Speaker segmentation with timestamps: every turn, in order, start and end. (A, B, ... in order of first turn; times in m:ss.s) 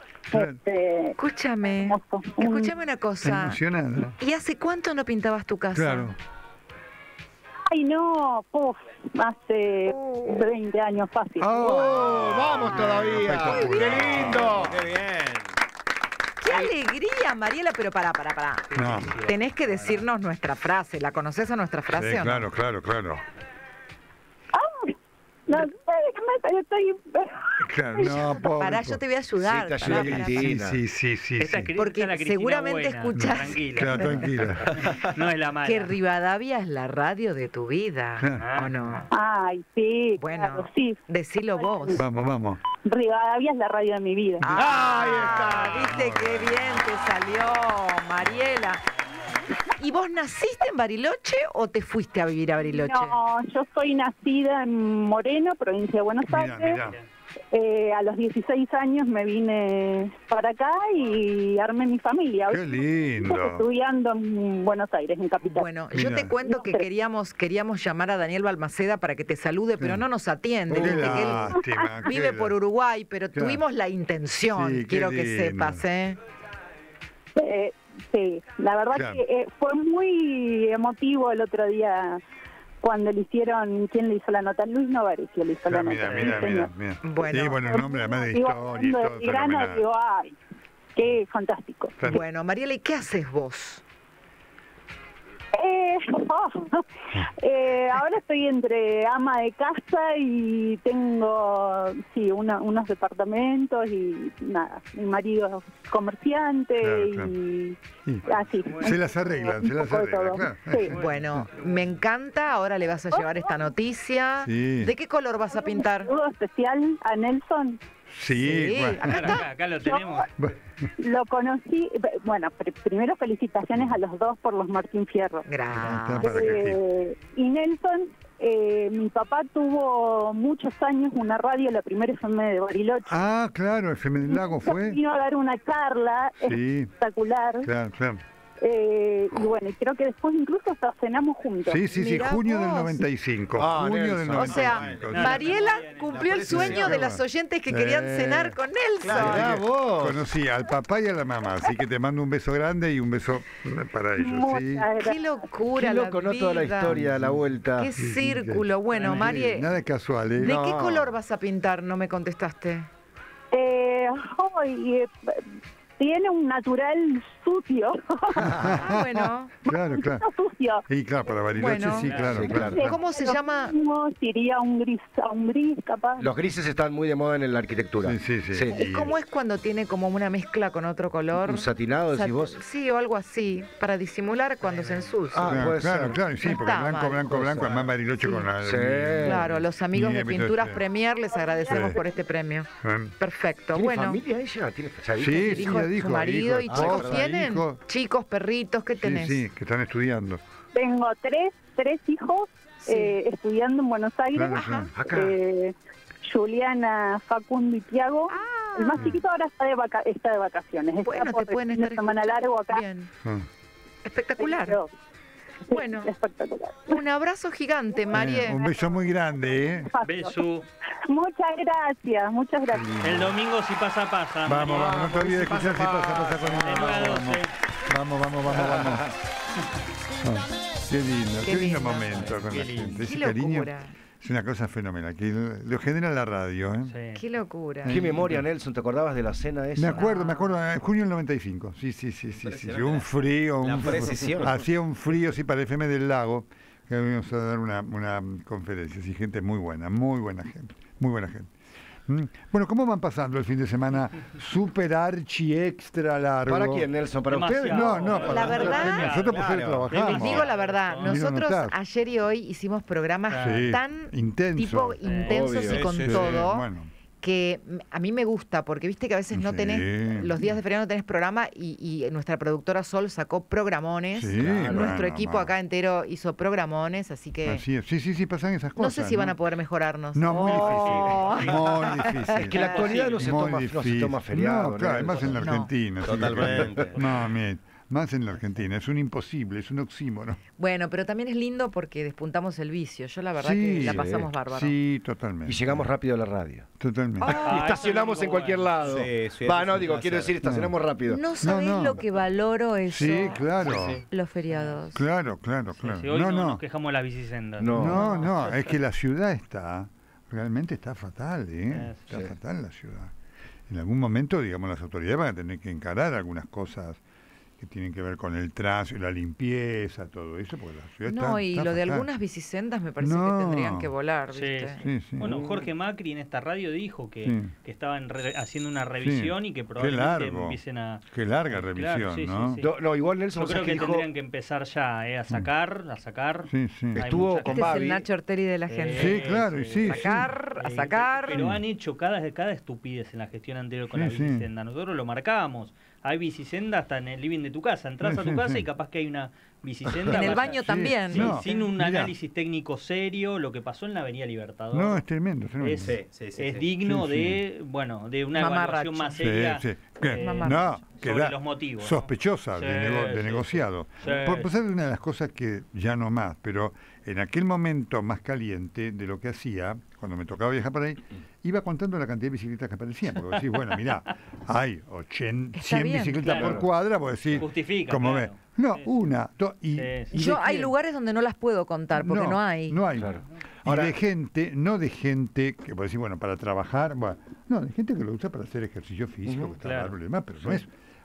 0:00.3-0:01.2 A
0:00.3-0:00.6 B
0:01.2-0:06.1 C
0:01.7-0:02.7 A
0:03.2-0:04.2 B
0:05.7-0:06.2 B
0:07.7-0:11.6 A
0:09.9-0:10.4 C
0:11.4-0:14.9 B
0:11.5-0:14.8 D
0:12.1-0:12.6 E
0:13.3-0:14.5 C
0:14.2-0:15.5 E
0:16.4-0:22.4 C
0:18.7-0:19.2 B
0:18.8-0:20.0 F
0:21.9-0:23.2 B
0:24.5-0:24.9 A
0:25.5-0:28.3 A
0:27.6-0:29.0 B
0:28.0-0:30.5 C
0:29.4-0:30.8 D
0:29.8-0:31.7 B
0:31.4-0:35.9 F
0:31.4-0:34.3 C
0:33.1-0:34.7 B
0:35.6-0:39.1 C
0:38.2-0:38.5 B
0:38.4-0:39.0 F
0:39.1-0:41.0 A
0:40.2-0:42.0 C
0:41.5-0:42.0 A
0:42.0-0:42.6 B
0:42.8-0:44.5 A
0:44.4-0:48.8 C
0:44.6-0:45.3 F
0:44.6-0:45.4 D
0:45.2-0:46.8 B
0:49.8-0:53.2 C
0:52.6-0:56.8 A
0:56.3-0:57.0 B
0:57.5-1:06.8 A
1:02.5-1:03.6 B
1:05.4-1:16.2 C
1:05.9-1:06.3 B
1:09.8-1:10.0 B
1:10.7-1:12.6 B
1:10.8-1:11.2 D
1:11.5-1:12.1 A
1:13.3-1:13.6 B
1:14.5-1:15.8 B
1:17.4-1:22.2 A
1:18.9-1:19.2 B
1:22.8-1:26.7 A
1:25.6-1:29.8 B
1:27.0-1:27.8 C
1:27.6-1:30.3 A
1:30.9-1:32.2 A
1:32.0-1:32.2 B
1:32.0-1:33.8 C
1:35.5-1:51.0 A
1:46.8-1:47.3 B
1:48.0-1:51.5 B
1:50.9-1:56.1 C
1:50.9-1:51.7 F
1:54.4-1:54.9 B
1:55.5-1:57.8 A
1:58.1-1:59.4 B
1:58.3-1:59.4 C
1:59.0-2:00.3 F
1:59.8-2:00.3 A
2:00.4-2:00.9 B
2:01.0-2:05.4 A
2:05.5-2:06.6 C
2:05.7-2:06.8 B
2:06.2-2:13.2 A
2:13.1-2:15.0 B
2:14.3-2:17.7 A
2:16.4-2:16.9 B
2:17.6-2:18.2 B
2:18.6-2:21.8 A
2:21.6-2:25.4 B
2:21.9-2:23.0 C
2:23.6-2:24.8 D
2:24.3-2:29.6 C
2:24.6-2:27.0 E
2:25.1-2:26.5 F
2:26.4-2:26.9 D
2:26.5-2:28.6 B
2:29.0-2:29.4 E
2:29.1-2:34.9 B
2:29.1-2:30.2 D
2:34.2-2:35.2 A
2:35.0-2:37.0 C
2:35.7-2:37.9 D
2:36.8-2:40.6 B
2:37.8-2:39.7 C
2:38.9-2:39.3 F
2:40.4-2:42.9 C
2:40.4-2:41.1 D
2:43.5-2:45.4 A
2:46.0-2:48.6 A
2:48.4-2:50.2 B
2:48.6-2:49.5 C
2:49.7-2:50.8 A
2:50.9-2:53.0 B
2:51.5-2:53.7 C
2:52.1-2:52.4 F
2:52.2-2:52.8 D
2:52.4-2:56.3 A
2:56.2-2:58.8 D
2:58.0-2:59.1 B
2:58.7-3:05.6 C
3:01.4-3:02.6 D
3:04.6-3:05.1 F
3:05.3-3:06.2 D
3:05.4-3:10.8 B
3:06.4-3:07.3 C
3:07.3-3:07.9 D
3:08.2-3:08.5 C
3:08.6-3:09.4 D
3:09.2-3:14.2 C
3:11.3-3:12.1 A
3:11.7-3:12.0 B
3:12.8-3:13.1 B
3:13.7-3:15.9 D
3:15.2-3:17.8 B
3:15.4-3:19.4 C
3:16.7-3:17.2 D
3:19.0-3:20.4 B
3:20.7-3:25.7 A
3:22.8-3:23.2 C
3:24.3-3:24.9 B
3:24.5-3:24.9 C
3:24.9-3:25.4 D
3:26.2-3:32.8 A
3:28.3-3:29.1 C
3:29.0-3:29.2 B
3:31.0-3:33.1 C
3:34.0-3:34.8 C
3:34.4-3:34.9 A
3:35.7-3:37.0 A
3:35.7-3:36.1 C
3:36.9-3:38.6 C
3:38.1-3:39.9 B
3:39.9-3:40.4 A
3:40.0-3:40.6 F
3:41.0-3:42.9 A
3:42.7-3:43.3 B
3:43.0-3:45.2 F
3:44.4-3:49.1 B
3:44.7-3:46.7 D
3:46.6-3:47.5 F
3:48.6-3:49.0 D
3:50.2-3:57.0 B
3:51.4-3:53.9 C
3:56.9-3:57.2 F
3:57.2-3:58.0 C
3:57.8-3:58.4 B
3:57.9-4:00.1 D
3:59.8-4:11.5 B
3:59.9-4:00.6 C
4:02.4-4:03.1 E
4:03.6-4:04.6 E
4:03.8-4:04.4 D
4:12.1-4:16.9 B
4:16.4-4:18.9 D
4:17.3-4:21.2 F
4:17.7-4:21.7 B
4:18.2-4:19.2 C
4:19.1-4:20.0 E
4:19.9-4:26.7 C
4:23.3-4:23.7 F
4:23.4-4:25.0 B
4:25.0-4:25.4 F
4:25.2-4:26.0 D
4:25.5-4:26.4 E
4:26.0-4:26.9 B
4:27.2-4:37.6 C
4:29.3-4:30.4 B
4:34.1-4:35.5 B
4:34.4-4:34.9 D
4:37.4-4:39.3 B
4:38.8-4:42.8 C
4:40.1-4:50.4 B
4:40.4-4:41.7 F
4:42.4-4:45.4 D
4:45.4-4:45.7 C
4:46.0-4:47.0 E
4:46.2-4:46.9 D
4:50.6-4:54.7 C
4:53.4-4:55.9 B
4:53.8-4:54.3 D
4:55.4-4:56.7 D
4:56.8-4:57.4 B
4:57.2-5:01.2 D
4:57.2-4:59.1 F
4:58.8-5:00.3 E
5:00.4-5:00.7 B
5:01.1-5:05.0 C
5:01.4-5:02.0 B
5:02.8-5:04.0 B
5:03.6-5:04.0 E
5:04.5-5:04.8 F
5:04.9-5:06.6 B
5:05.8-5:08.7 F
5:07.6-5:08.0 D
5:07.7-5:13.1 B
5:07.9-5:08.2 C
5:11.7-5:12.1 F
5:13.7-5:17.0 B
5:17.6-5:22.1 B
5:21.1-5:24.8 C
5:23.0-5:23.9 B
5:24.3-5:32.7 F
5:24.8-5:25.4 B
5:25.2-5:25.5 D
5:27.2-5:27.5 B
5:29.0-5:32.6 B
5:32.6-5:34.1 D
5:33.3-5:37.6 F
5:36.5-5:37.0 B
5:36.9-5:38.0 D
5:37.5-5:41.4 C
5:38.7-5:50.6 F
5:38.9-5:40.3 B
5:41.3-5:41.6 B
5:43.9-5:44.5 B
5:48.0-5:48.6 B
5:49.9-5:52.1 B
5:50.1-5:51.7 C
5:51.1-5:55.0 F
5:54.7-5:56.0 B
5:55.6-6:04.5 F
5:55.8-5:56.6 E
5:56.8-5:57.4 B
5:58.3-5:59.2 C
5:59.2-6:20.7 B
6:00.1-6:00.7 C
6:15.5-6:16.6 C
6:16.2-6:16.6 F
6:16.4-6:16.6 D
6:17.3-6:19.0 F
6:19.8-6:20.1 F
6:20.1-6:22.9 C
6:21.9-6:30.7 B
6:23.0-6:23.9 D
6:29.2-6:29.5 D
6:29.6-6:29.9 F